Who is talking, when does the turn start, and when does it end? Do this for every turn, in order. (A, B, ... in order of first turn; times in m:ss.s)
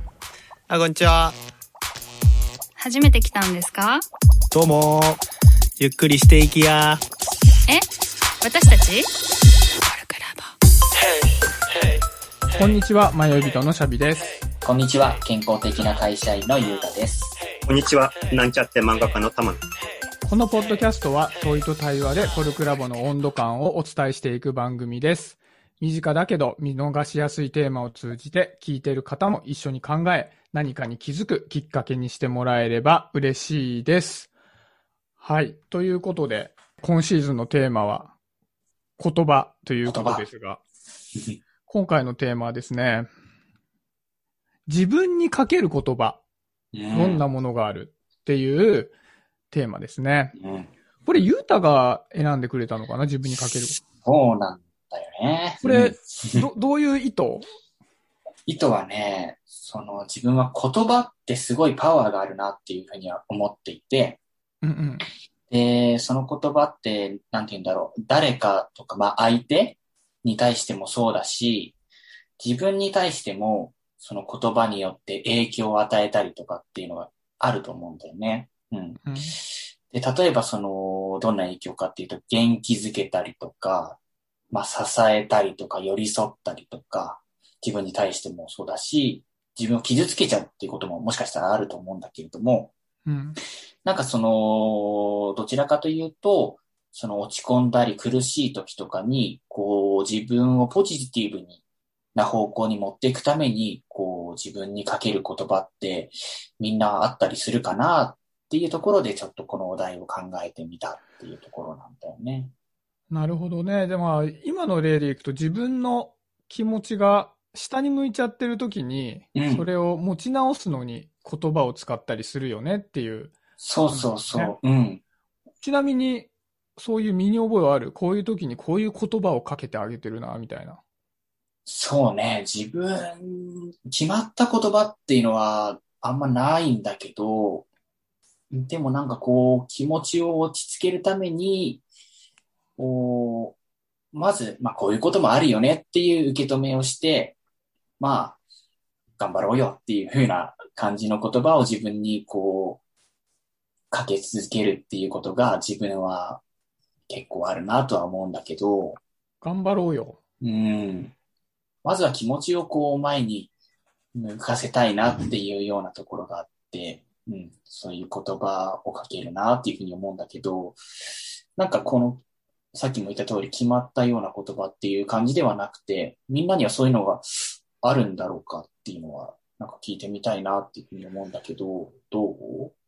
0:00.7-0:01.4 A
0:02.8-0:04.0 B
0:04.5-0:05.2 A
0:05.8-0:07.0 A
0:08.4-0:09.1 B
0:09.8-0:10.5 B
0:12.5-0:14.3 C
0:14.6-0:17.3 D
0:17.6-0:19.6 E
0:20.2-0:34.3 C
0:35.2-0:38.1 C
0:39.0-0:40.6 C
0:39.8-0:40.3 D
0:41.7-0:43.1 C
0:44.7-0:46.2 C
0:46.7-0:47.2 D
0:46.9-0:48.9 C
0:49.5-0:50.3 C
0:50.4-0:50.7 D
0:51.0-0:53.8 C
0:53.8-0:56.5 D
0:55.6-0:57.4 C
0:58.5-1:04.2 D
1:04.6-1:05.1 C
1:05.5-1:11.7 D
1:12.4-1:24.0 D
1:19.0-1:19.4 C
1:24.5-1:32.7 D
1:33.0-1:33.4 C
1:33.8-1:41.6 D
1:42.1-1:52.5 D
1:53.1-2:03.4 C
1:59.3-1:59.7 D
2:03.6-2:05.0 D
2:03.9-2:04.5 C
2:05.6-2:10.8 C
2:11.6-2:17.6 D
2:18.5-2:21.8 D
2:22.8-2:23.6 D
2:24.1-2:27.4 D
2:28.0-2:28.4 D
2:29.2-2:32.8 D
2:33.9-2:36.4 D
2:37.1-2:39.0 D
2:39.4-2:40.2 C
2:40.4-2:41.1 D
2:41.8-2:43.5 D
2:44.1-2:50.8 D
2:51.6-3:02.7 D